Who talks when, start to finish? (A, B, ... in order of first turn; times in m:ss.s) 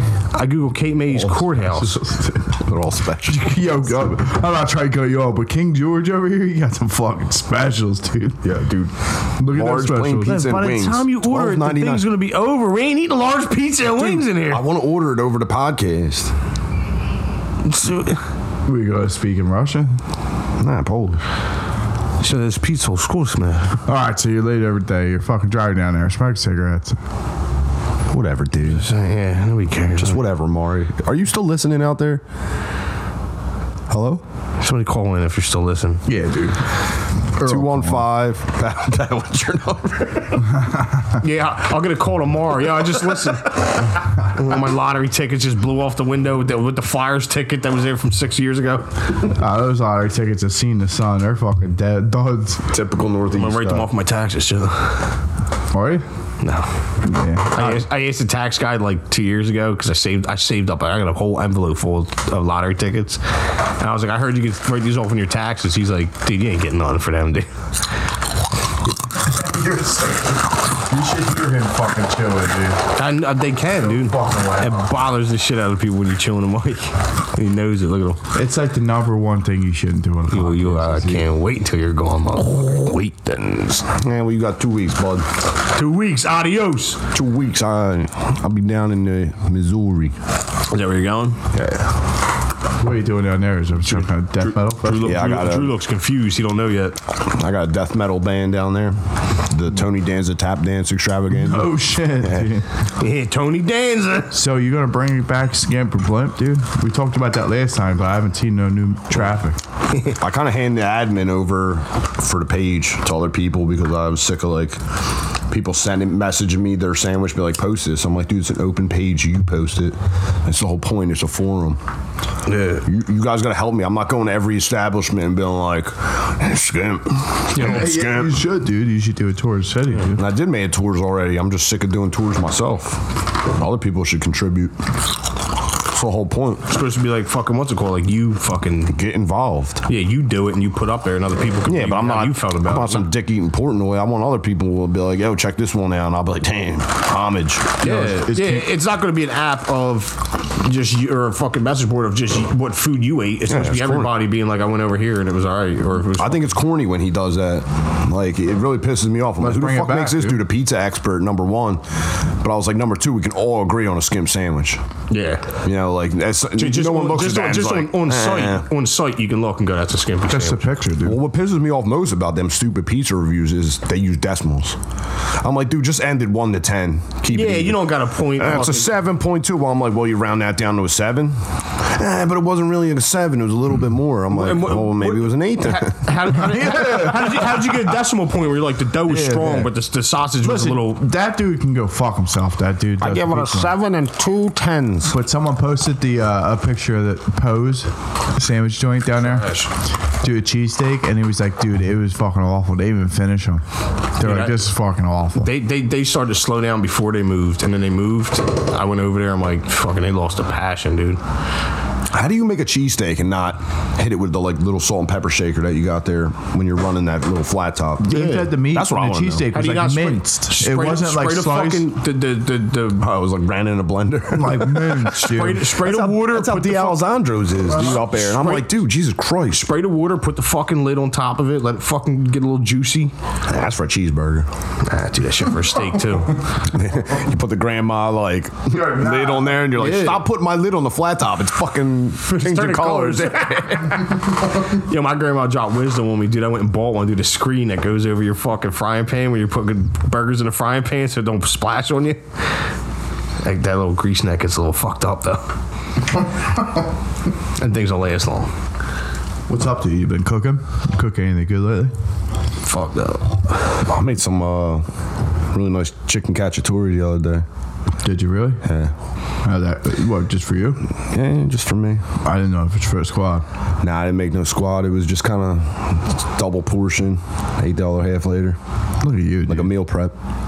0:00.3-0:02.0 A
0:01.7-0:02.6 B
0:02.6-0:03.6 C
0:03.3-0:08.6 B
0:08.4-0:08.9 C
0:09.4-0:10.4 B
0:09.5-0:12.1 C
0:10.2-0:14.6 A
0:13.9-0:16.3 C
0:17.6-0:18.2 A
0:18.7-0:20.0 B
0:20.6-0:21.2 C
0:22.2-0:23.8 A
0:23.9-0:27.0 B
0:28.1-0:28.9 C
0:28.7-0:30.2 A
0:30.0-0:32.2 C
0:33.9-0:34.2 C
0:34.6-0:36.0 A
0:36.1-0:36.7 B
0:37.4-0:38.1 B
0:37.4-0:40.5 C
0:40.4-0:41.2 B
0:41.2-0:48.9 A
0:49.4-0:52.7 B
0:52.7-0:53.9 C
0:53.3-0:55.2 A
0:55.7-0:56.0 B
0:56.4-0:56.7 A
0:57.0-0:57.8 B
0:57.5-1:07.5 A
1:09.2-1:12.8 B
1:13.0-1:18.2 A
1:13.8-1:14.8 B
1:18.4-1:21.2 B
1:20.3-1:23.5 A
1:23.2-1:25.3 C
1:25.7-1:27.1 A
1:27.1-1:30.2 C
1:30.7-1:31.5 A
1:31.5-1:31.9 C
1:32.8-1:35.2 B
1:33.9-1:37.0 A
1:35.0-1:35.7 C
1:37.2-1:42.5 C
1:41.3-1:42.7 B
1:43.0-1:44.4 A
1:44.3-1:49.6 B
1:50.2-2:01.8 C
2:02.5-2:02.8 A
2:02.8-2:08.4 C
2:07.6-2:07.9 A
2:07.6-2:10.2 B
2:10.1-2:14.8 C
2:15.8-2:16.7 C
2:16.7-2:19.0 A
2:18.9-2:19.9 C
2:19.9-2:23.1 A
2:21.7-2:27.8 C
2:27.8-2:36.6 A
2:27.8-2:28.7 B
2:33.5-2:34.1 C
2:36.2-2:41.8 C
2:39.4-2:40.4 B
2:42.4-2:44.8 C
2:45.1-2:45.6 A
2:45.6-2:48.7 C
2:46.6-2:50.7 A
2:50.3-2:51.2 B
2:51.0-2:54.8 C
2:55.4-3:06.1 C
2:57.3-2:59.0 A
3:04.3-3:11.0 A
3:06.3-3:07.8 B
3:09.1-3:09.7 B
3:10.4-3:13.7 B
3:13.0-3:15.1 C
3:15.1-3:23.6 B
3:19.2-3:19.7 A
3:24.2-3:25.5 B
3:24.2-3:24.6 A
3:25.4-3:31.2 A
3:32.1-3:39.5 C
3:38.0-3:41.9 B
3:38.1-3:38.5 A
3:39.5-3:43.0 A
3:43.0-3:45.1 C
3:44.3-3:45.7 B
3:45.1-3:47.1 A
3:45.7-3:49.7 C
3:47.7-3:48.8 A
3:49.5-3:53.1 A
3:53.5-3:54.5 C
3:54.8-3:56.5 A
3:56.6-4:04.0 C
3:58.7-4:00.1 B
3:59.8-4:00.2 A
4:02.2-4:12.6 A
4:13.4-4:15.5 A
4:17.6-4:18.5 A
4:19.5-4:21.9 B
4:22.6-4:23.8 A
4:23.8-4:24.8 C
4:25.5-4:27.5 C
4:28.0-4:28.6 B
4:28.6-4:28.9 C
4:29.4-4:30.8 B
4:31.0-4:32.1 C
4:32.2-4:33.4 B
4:33.8-4:38.6 C
4:39.0-4:39.7 B
4:39.5-4:40.1 C